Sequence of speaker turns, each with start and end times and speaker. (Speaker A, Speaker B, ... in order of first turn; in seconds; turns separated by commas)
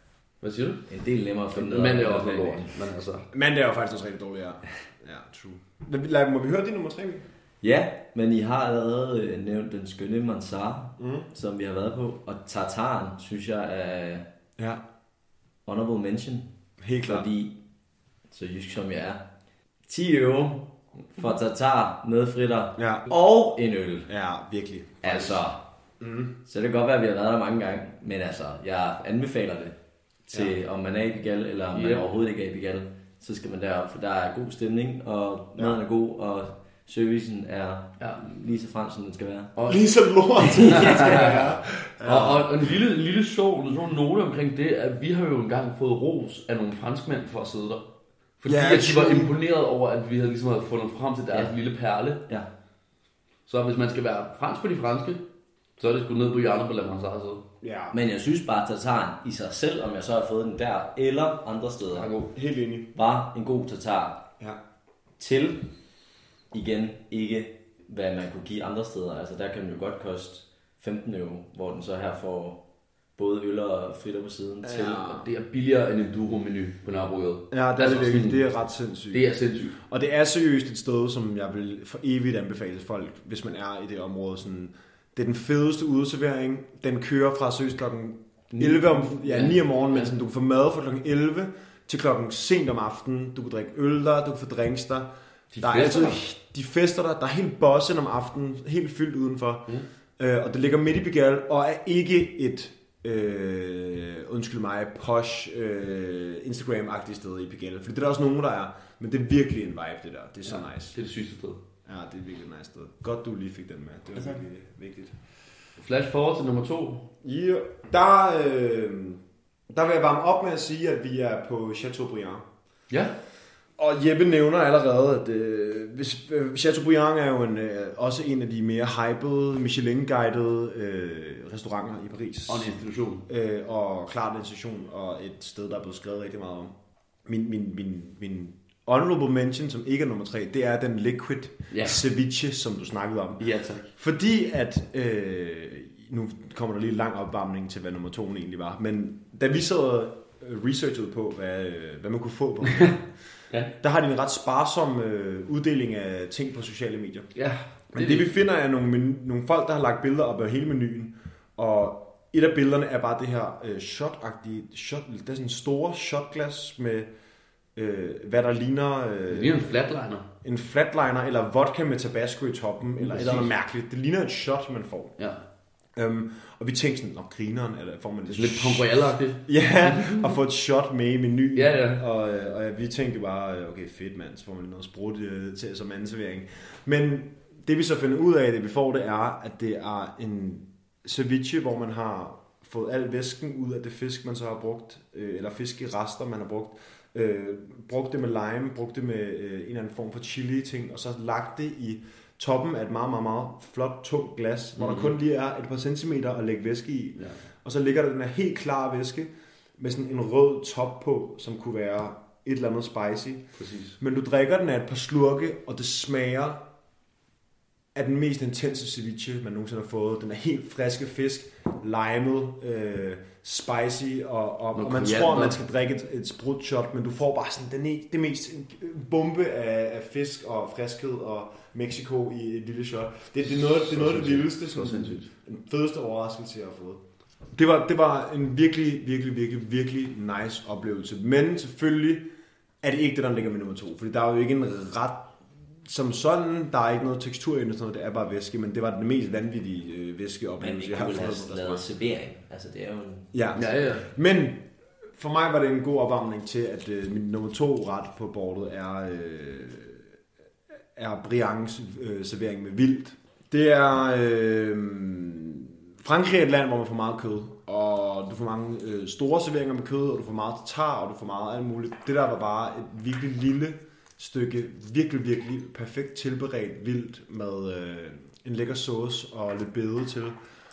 Speaker A: 0.4-0.8, Speaker B: 0.9-2.7, Speaker A: 1.5-3.3, Speaker C: 3.3-7.2, Speaker B: 7.6-14.3, Speaker C: 11.0-11.3, Speaker C: 14.6-14.8, Speaker B: 15.7-16.5, Speaker C: 16.8-17.3, Speaker B: 17.0-17.6, Speaker B: 18.3-19.3, Speaker B: 19.9-24.1, Speaker C: 22.8-23.1, Speaker C: 24.1-25.4, Speaker B: 25.0-25.6, Speaker C: 26.0-26.3, Speaker B: 26.4-29.8, Speaker B: 30.3-39.5, Speaker A: 31.7-32.1, Speaker A: 38.0-38.3, Speaker A: 39.5-39.8, Speaker C: 39.7-42.7, Speaker B: 40.6-41.4, Speaker A: 40.6-41.4, Speaker A: 42.0-47.9, Speaker A: 48.4-52.3, Speaker C: 48.5-49.4, Speaker A: 53.5-55.2, Speaker A: 55.8-57.4, Speaker C: 57.6-58.0, Speaker B: 57.9-62.1, Speaker A: 61.9-62.3, Speaker C: 62.3-62.9, Speaker B: 62.9-64.2, Speaker B: 65.2-65.7, Speaker B: 66.5-72.6, Speaker B: 73.2-75.0, Speaker C: 74.6-75.3, Speaker A: 74.9-78.4, Speaker C: 77.5-79.3, Speaker A: 79.1-79.8, Speaker C: 79.8-95.1, Speaker A: 88.5-90.1, Speaker A: 95.5-96.2, Speaker C: 95.6-111.0, Speaker A: 110.5-111.6, Speaker C: 111.8-115.2, Speaker A: 115.8-117.1, Speaker C: 117.2-122.4, Speaker A: 122.9-123.1, Speaker C: 123.8-132.7, Speaker A: 132.5-133.2, Speaker C: 133.3-136.7, Speaker C: 137.2-153.1, Speaker A: 141.7-142.0, Speaker A: 143.4-143.9, Speaker A: 152.7-152.9, Speaker C: 153.8-157.3, Speaker A: 157.3-158.3, Speaker C: 157.9-167.1, Speaker C: 167.7-169.7, Speaker A: 169.3-170.3, Speaker C: 170.4-175.2, Speaker A: 173.1-173.5, Speaker A: 175.2-175.4, Speaker C: 175.9-213.4, Speaker A: 178.3-180.3, Speaker A: 181.5-182.0, Speaker A: 204.8-205.1, Speaker A: 207.2-207.4, Speaker A: 213.6-213.9, Speaker C: 214.0-216.6, Speaker C: 217.9-237.0, Speaker A: 224.7-225.6, Speaker A: 233.5-235.3, Speaker C: 237.5-242.3, Speaker C: 242.8-245.3, Speaker C: 245.8-251.8, Speaker B: 250.6-253.3, Speaker C: 253.3-260.1, Speaker A: 253.5-254.1, Speaker C: 260.9-280.4